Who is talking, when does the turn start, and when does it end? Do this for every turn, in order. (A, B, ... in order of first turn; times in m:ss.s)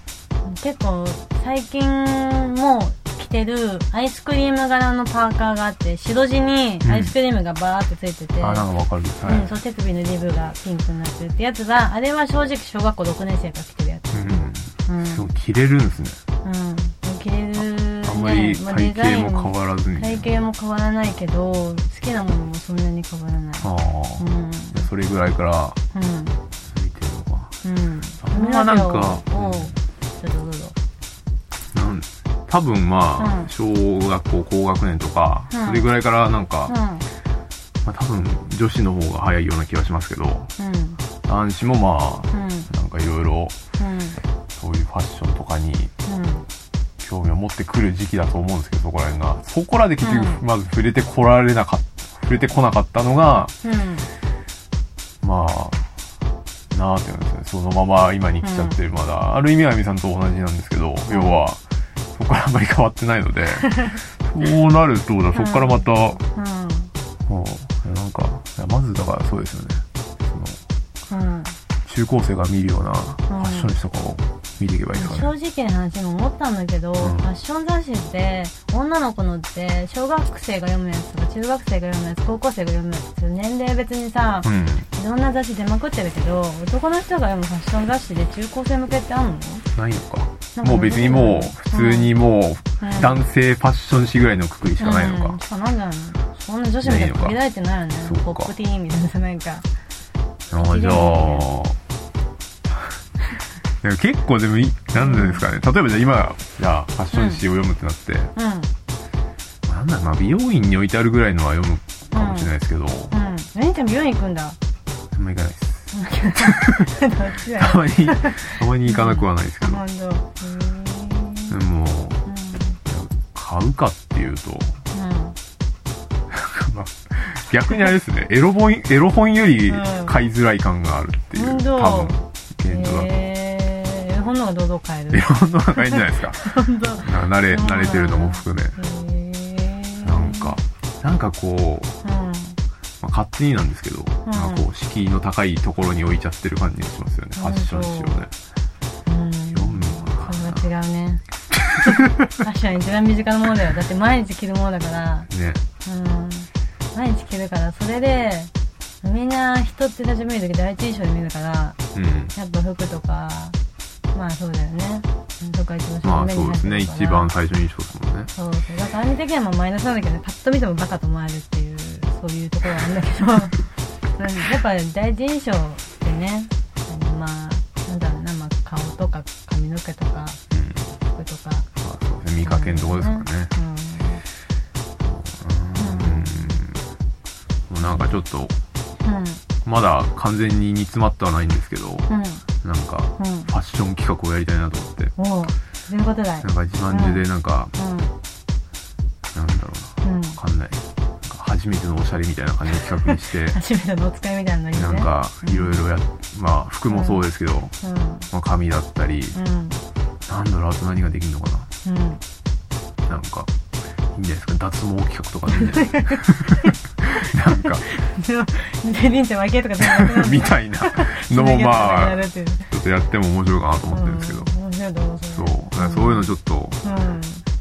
0:00.4-0:08.7 A
0:06.8-0:07.1 B
0:08.4-0:09.6 B
0:09.2-0:15.2 A
0:14.1-0:16.2 B
0:16.4-0:24.9 A
0:17.6-0:20.4 B
0:23.6-0:25.8 B
0:25.9-0:26.4 A
0:26.7-0:27.5 B
0:27.6-0:30.8 A
0:28.2-0:29.8 B
0:31.7-0:36.7 B
0:33.2-0:33.5 A
0:35.5-0:35.9 A
0:36.7-0:37.1 A
0:37.8-0:40.5 B
0:40.6-0:41.0 A
0:41.2-0:43.6 B
0:42.3-0:42.7 A
0:43.8-0:44.2 A
0:44.6-0:45.9 B
0:46.0-0:46.4 A
0:47.0-0:53.5 B
0:50.0-0:50.4 A
0:53.6-0:54.1 A
0:55.2-0:55.9 B
0:56.7-1:01.6 B
0:58.4-0:58.8 A
1:01.1-1:01.4 A
1:02.1-1:06.2 B
1:05.3-1:06.9 A
1:07.3-1:10.6 B
1:11.1-1:11.6 A
1:11.8-1:15.3 B
1:13.3-1:13.7 A
1:14.9-1:29.6 A
1:17.0-1:17.2 B
1:24.4-1:24.9 B
1:29.7-1:35.4 B
1:30.6-1:32.1 A
1:32.8-1:33.2 A
1:34.8-1:39.6 A
1:36.8-1:37.4 B
1:38.0-1:38.5 B
1:40.5-1:41.8 B
1:40.6-1:41.5 A
1:43.8-1:48.3 B
1:45.0-1:45.4 A
1:47.1-1:47.4 A
1:48.4-1:48.7 A
1:49.6-1:53.1 B
1:52.1-1:52.5 A
1:53.1-1:54.6 A
1:55.1-1:56.9 B
1:55.9-2:01.5 A
1:57.6-1:59.8 B
2:01.5-2:02.2 B
2:02.2-2:02.8 A
2:02.8-2:04.8 B
2:04.9-2:05.4 A
2:06.3-2:13.1 B
2:09.7-2:10.1 A
2:11.3-2:20.6 A
2:15.1-2:16.4 B
2:17.0-2:18.8 B
2:20.0-2:21.9 B
2:22.0-2:22.6 A
2:23.0-2:28.3 B
2:24.2-2:24.6 A
2:27.3-2:28.2 A
2:29.0-2:31.2 A
2:29.5-2:30.7 B
2:31.8-2:35.3 A
2:35.3-2:35.6 B
2:35.8-2:38.5 A
2:39.0-2:41.8 A
2:41.9-2:42.3 B
2:42.3-2:43.6 A
2:44.1-2:47.3 A
2:46.0-2:48.3 B
2:48.3-3:00.4 A
3:00.5-3:00.9 B
3:01.1-3:01.7 A
3:01.8-3:03.5 B
3:02.4-3:04.2 A
3:05.0-3:06.8 B
3:05.8-3:06.6 A
3:07.7-3:08.6 B
3:07.8-3:08.1 A
3:09.0-3:09.4 A
3:09.6-3:12.1 B
3:12.1-3:12.4 A
3:12.6-3:15.1 B
3:13.2-3:13.5 A
3:15.2-3:17.2 A
3:16.4-3:17.7 B
3:17.7-3:18.1 A
3:19.3-3:23.6 B
3:20.0-3:20.4 A
3:23.1-3:25.8 A
3:24.7-3:27.7 B
3:26.9-3:27.2 A
3:27.8-3:28.3 A
3:28.3-3:29.4 B
3:29.3-3:29.8 A
3:30.3-3:31.7 B
3:31.8-3:32.2 A
3:33.1-3:33.5 B
3:34.1-3:37.8 B
3:35.6-3:36.7 A
3:37.8-3:42.6 A
3:39.8-3:44.5 B
3:43.9-3:47.4 A
3:45.3-3:46.8 B